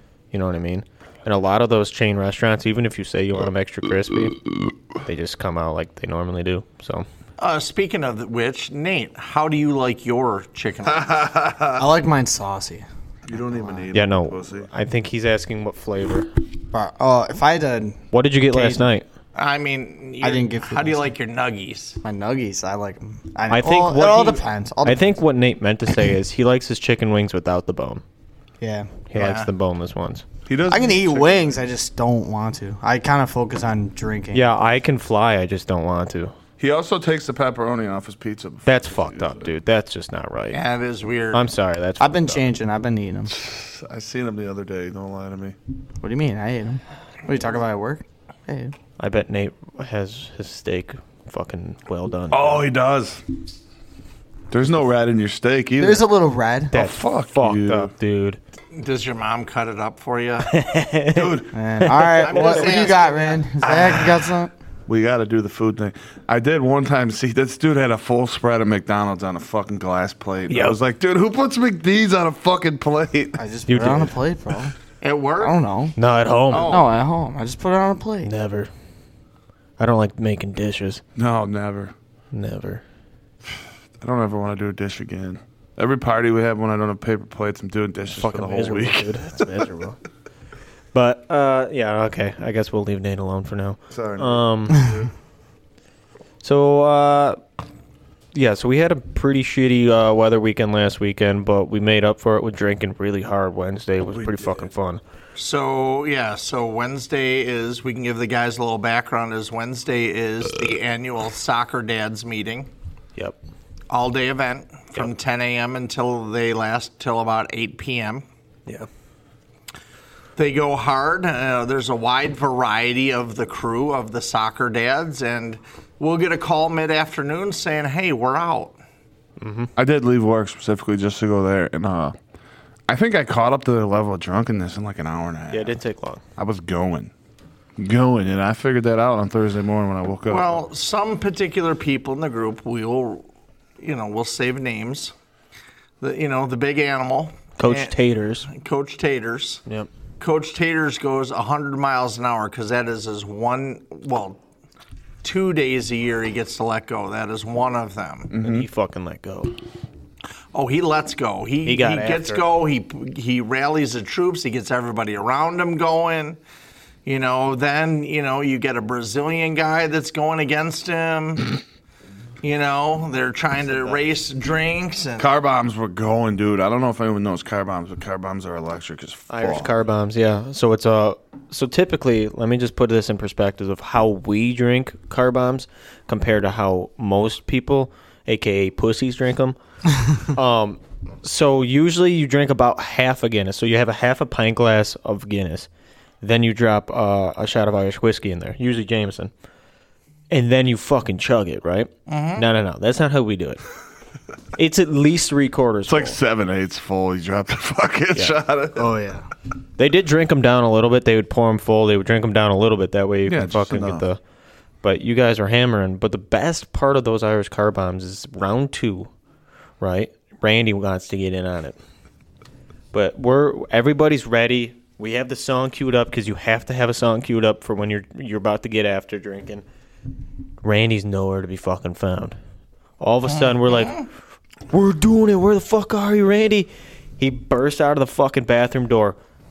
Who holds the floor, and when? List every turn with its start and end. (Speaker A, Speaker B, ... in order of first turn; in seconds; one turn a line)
Speaker A: 0.3-4.4
Speaker A: 5.0-7.0
Speaker B: 7.4-11.3
Speaker C: 10.9-11.8
Speaker D: 11.8-13.9
Speaker C: 13.3-14.7
Speaker A: 13.9-16.3
Speaker D: 16.7-18.9
Speaker A: 18.1-19.1
Speaker B: 19.3-22.0
Speaker D: 20.2-21.1
Speaker D: 22.0-25.2
Speaker A: 23.5-28.0
Speaker D: 28.6-28.9
Speaker A: 29.1-30.2
Speaker B: 29.1-29.5
Speaker C: 30.5-31.6
Speaker D: 30.7-34.6
Speaker A: 34.3-36.3
Speaker C: 36.6-39.5
Speaker A: 38.6-40.6
Speaker B: 40.5-41.4
Speaker A: 41.3-42.4
Speaker D: 42.0-43.3
Speaker C: 43.3-45.5
Speaker D: 46.0-48.7
Speaker A: 49.0-52.7
Speaker C: 52.3-53.2
Speaker C: 54.5-56.0
Speaker D: 55.8-56.9
Speaker A: 56.7-58.4
Speaker C: 56.7-57.9
Speaker B: 58.7-60.5
Speaker A: 60.4-62.7
Speaker C: 61.1-61.9
Speaker D: 61.5-64.5
Speaker B: 62.2-63.4
Speaker C: 63.6-64.3
Speaker C: 64.9-73.4
Speaker A: 70.5-70.7
Speaker D: 73.4-74.7
Speaker A: 73.7-74.2
Speaker B: 75.0-75.6
Speaker D: 75.4-75.9
Speaker A: 76.0-76.8
Speaker C: 76.5-76.9
Speaker D: 76.6-78.3
Speaker A: 78.2-78.7
Speaker A: 79.8-81.0
Speaker C: 81.2-81.9
Speaker A: 82.3-82.8
Speaker C: 84.0-89.5
Speaker A: 88.1-90.0
Speaker A: 90.9-94.9
Speaker C: 93.9-95.1
Speaker A: 96.4-97.4
Speaker A: 98.3-105.0
Speaker C: 104.1-104.6
Speaker B: 105.3-112.7
Speaker B: 113.9-118.2
Speaker B: 120.4-128.7
Speaker A: 129.4-129.7
Speaker C: 129.8-132.1
Speaker C: 132.9-135.7
Speaker A: 135.5-136.2
Speaker C: 136.4-137.1
Speaker C: 137.8-140.6
Speaker B: 140.3-143.2
Speaker B: 143.8-145.1
Speaker B: 146.0-149.6
Speaker A: 147.6-148.5
Speaker B: 150.2-154.4
Speaker B: 155.2-158.3
Speaker C: 158.3-158.7
Speaker A: 158.4-159.5
Speaker B: 160.5-166.4
Speaker A: 161.6-162.4
Speaker B: 167.1-171.5
Speaker B: 172.4-175.3
Speaker A: 173.7-174.0
Speaker C: 175.2-179.7
Speaker A: 179.3-189.6
Speaker A: 190.2-195.7
Speaker A: 196.2-199.3
Speaker A: 200.3-203.6
Speaker B: 202.1-202.4
Speaker A: 204.6-206.2
Speaker C: 205.9-208.9
Speaker D: 208.8-209.3
Speaker A: 209.8-214.2
Speaker C: 213.2-214.1
Speaker A: 214.8-219.1
Speaker A: 219.8-221.8
Speaker A: 222.9-229.6
Speaker A: 230.6-232.3
Speaker A: 233.0-233.9
Speaker B: 233.2-234.1
Speaker A: 234.7-239.2